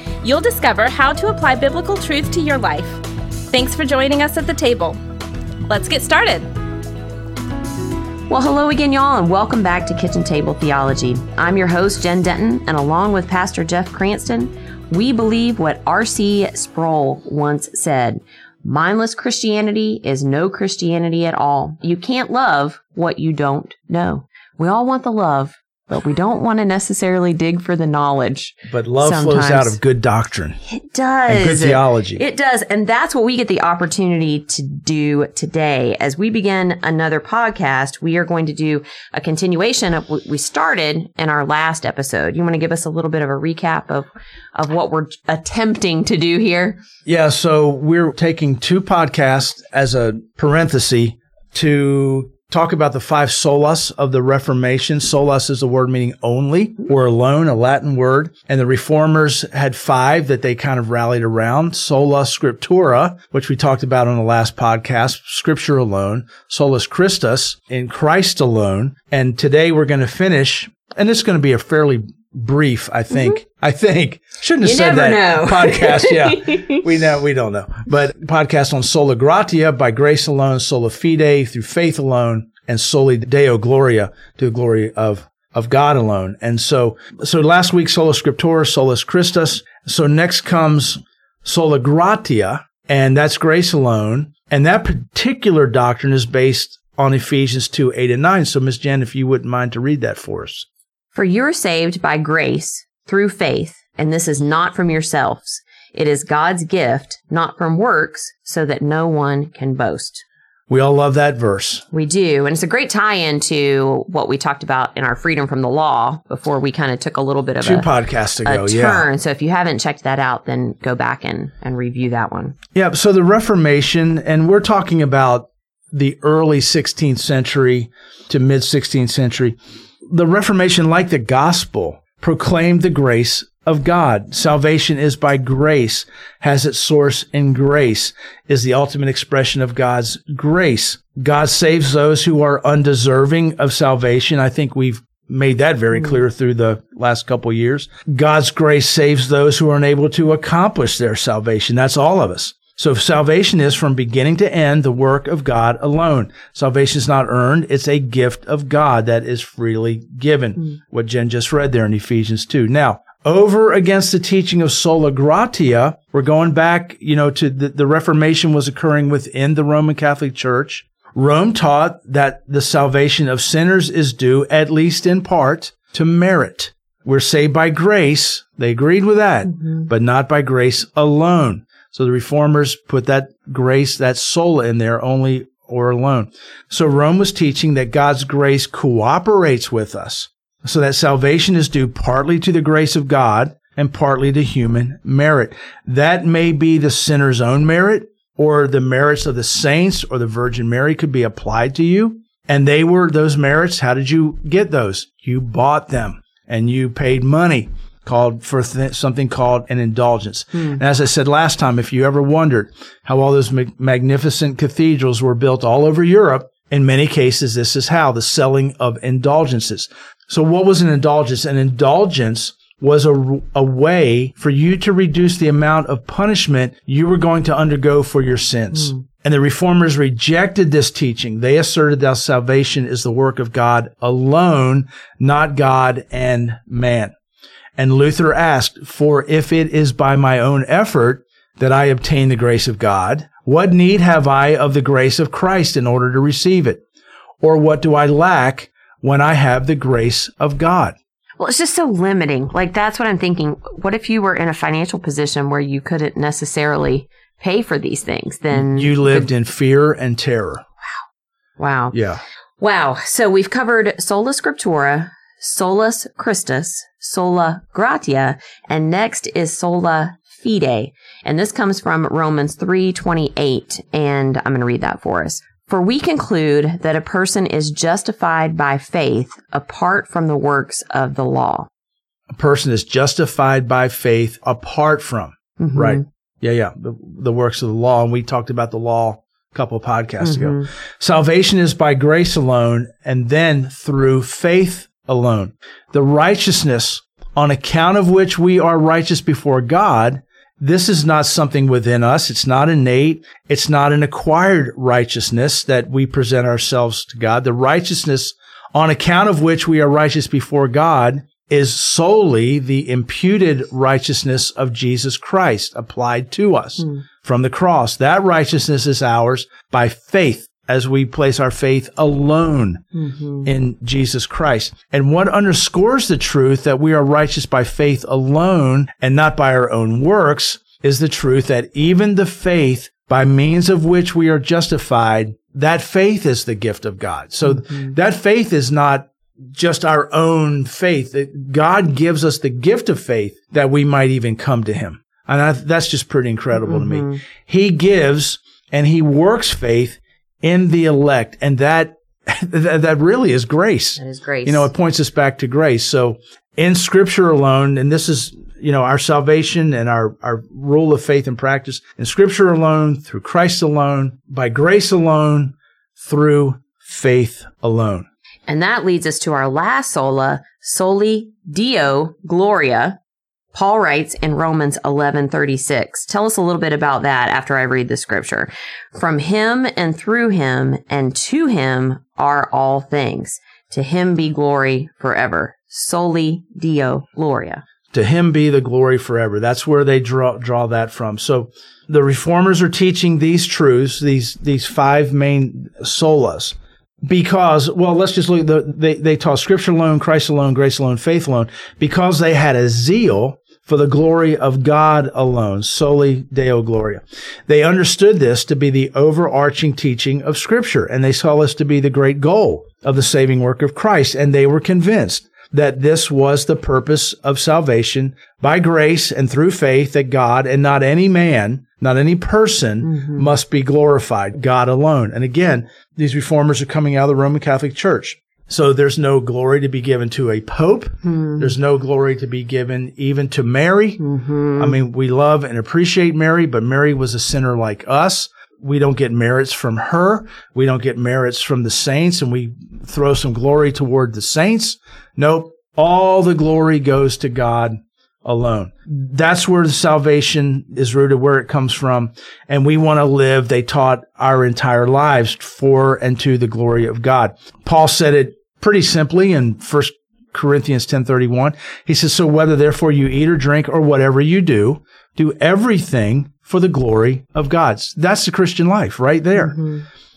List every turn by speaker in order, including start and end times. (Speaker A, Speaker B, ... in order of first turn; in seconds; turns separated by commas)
Speaker A: 0.2-5.0, Speaker A: 5.7-6.5, Speaker B: 8.3-29.8, Speaker C: 28.7-30.6, Speaker B: 30.6-46.8, Speaker C: 31.3-32.2, Speaker C: 47.0-100.7, Speaker B: 73.1-73.4, Speaker B: 74.6-76.8, Speaker B: 101.1-110.2, Speaker C: 110.7-111.8, Speaker B: 111.9-122.5, Speaker C: 117.6-119.1, Speaker C: 122.7-129.6, Speaker C: 130.1-237.1, Speaker B: 228.8-229.0, Speaker C: 237.8-246.8, Speaker C: 247.4-250.9, Speaker B: 251.4-259.3, Speaker C: 258.5-260.6, Speaker B: 261.6-261.9, Speaker C: 261.9-262.2, Speaker B: 262.6-281.7, Speaker C: 282.3-322.8, Speaker B: 285.6-286.0, Speaker B: 290.2-290.7, Speaker B: 322.9-323.5, Speaker C: 323.4-368.1, Speaker B: 337.4-337.9, Speaker B: 346.6-347.2, Speaker B: 354.0-354.7, Speaker B: 368.5-373.0, Speaker B: 373.5-387.6, Speaker C: 387.9-434.0, Speaker B: 422.8-423.3, Speaker B: 431.0-431.6, Speaker B: 434.0-434.8, Speaker C: 434.6-469.6, Speaker B: 469.3-469.8